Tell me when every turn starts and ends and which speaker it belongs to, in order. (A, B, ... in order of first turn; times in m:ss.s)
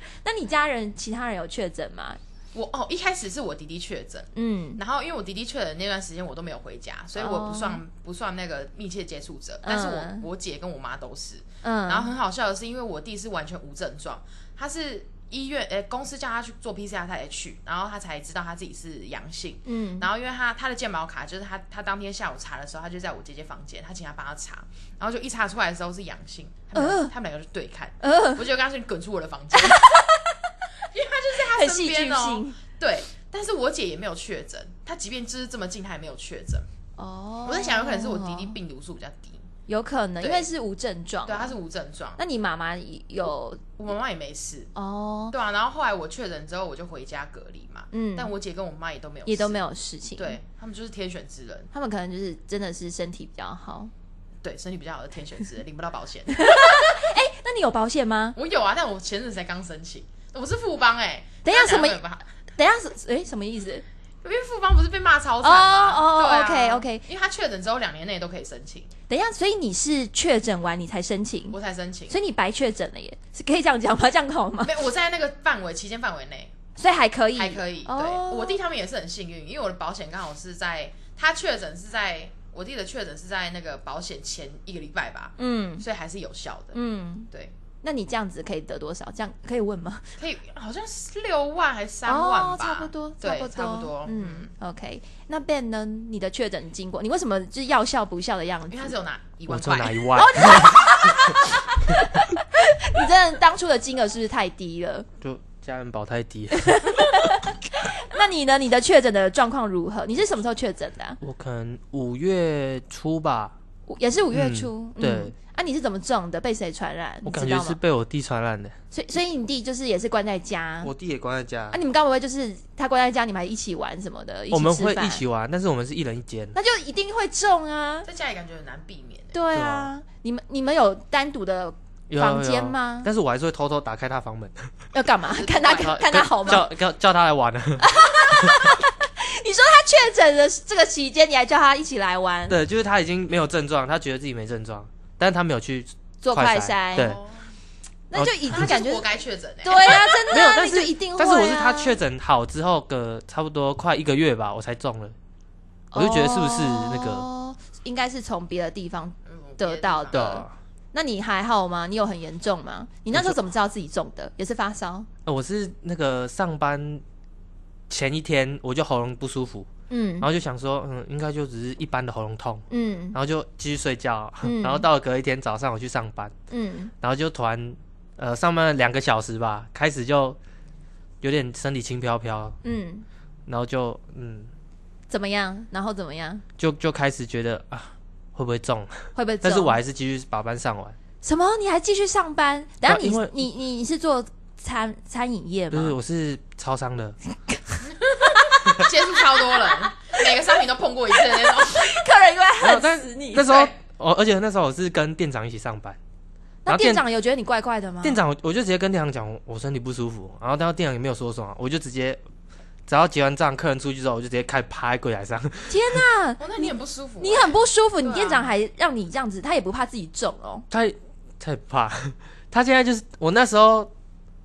0:00.2-0:02.2 A
0:02.5-0:30.0 B
0:04.3-0:04.8 A
0:07.2-0:07.8 A
0:09.6-0:10.3 A
0:11.6-0:12.1 A
0:19.6-0:20.1 A
0:26.7-0:27.1 A
0:28.0-0:28.4 A
0:29.5-0:30.5 A
0:30.9-0:36.6 B
0:31.4-0:32.6 A
0:37.0-0:38.5 A
0:37.4-0:39.4 B
0:39.7-0:41.5 A
0:40.2-0:40.5 B
0:41.2-0:42.2 B
0:42.2-0:43.6 A
0:43.8-0:44.7 B
0:44.7-0:45.3 A
0:45.3-0:49.6 B
0:47.9-0:48.3 A
0:49.2-0:50.4 A
0:50.2-0:51.7 B
0:51.7-0:53.9 A
0:54.4-0:57.0 B
0:56.3-0:58.4 A
0:58.4-1:02.2 B
1:01.4-1:02.0 A
1:02.6-1:03.8 A
1:04.2-1:08.9 B
1:05.4-1:07.0 A
1:09.1-1:11.6 A
1:11.5-1:12.2 B
1:12.1-1:14.7 A
1:14.6-1:16.5 B
1:16.8-1:18.6 A
1:17.3-1:26.8 B
1:25.4-1:25.8 A
1:26.7-1:27.3 A
1:27.8-1:30.1 A
1:30.2-1:34.5 B
1:32.0-1:38.9 A
1:38.7-1:40.9 B
1:39.5-1:41.4 C
1:40.1-1:45.1 A
1:45.2-1:47.0 C
1:46.5-1:51.2 A
1:51.2-1:53.5 C
1:53.9-1:57.8 A
1:54.3-1:55.3 C
1:57.2-1:58.7 C
1:58.9-2:00.9 A
2:00.8-2:01.8 C
2:01.7-2:05.2 A
2:04.5-2:06.5 C
2:06.5-2:08.1 A
2:08.0-2:09.4 B
2:09.3-2:13.1 A
2:09.5-2:09.9 C
2:12.1-2:14.7 C
2:14.9-2:16.7 A
2:15.3-2:16.1 B
2:15.7-2:18.7 C
2:17.8-2:22.6 A
2:22.5-2:27.2 C
2:26.2-2:27.2 A
2:26.9-2:27.4 B
2:28.1-2:29.0 A
2:28.1-2:28.7 C
2:28.5-2:30.0 B
2:29.6-2:32.0 A
2:29.9-2:35.1 C
2:35.9-2:45.1 A
2:35.9-2:37.2 C
2:39.3-2:40.3 B
2:40.1-2:40.5 C
2:45.2-2:47.0 C
2:47.9-2:49.7 C
2:49.9-2:50.3 A
2:50.2-2:56.3 C
2:52.7-2:53.2 A
2:54.4-2:54.8 A
2:56.5-2:56.9 A
2:57.0-3:00.4 C
3:01.2-3:02.6 C
3:02.6-3:03.0 A
3:03.5-3:04.5 C
3:05.1-3:06.4 A
3:06.6-3:11.0 C
3:09.1-3:09.8 A
3:11.2-3:16.0 A
3:12.8-3:13.3 C
3:15.7-3:17.2 C
3:17.5-3:20.3 A
3:17.9-3:22.1 B
3:21.2-3:23.7 A
3:22.6-3:26.0 C
3:26.6-3:28.2 A
3:26.7-3:27.0 C
3:28.0-3:32.2 C
3:32.9-3:36.0 C
3:35.7-3:40.7 A
3:36.4-3:38.5 B
3:40.7-3:43.9 C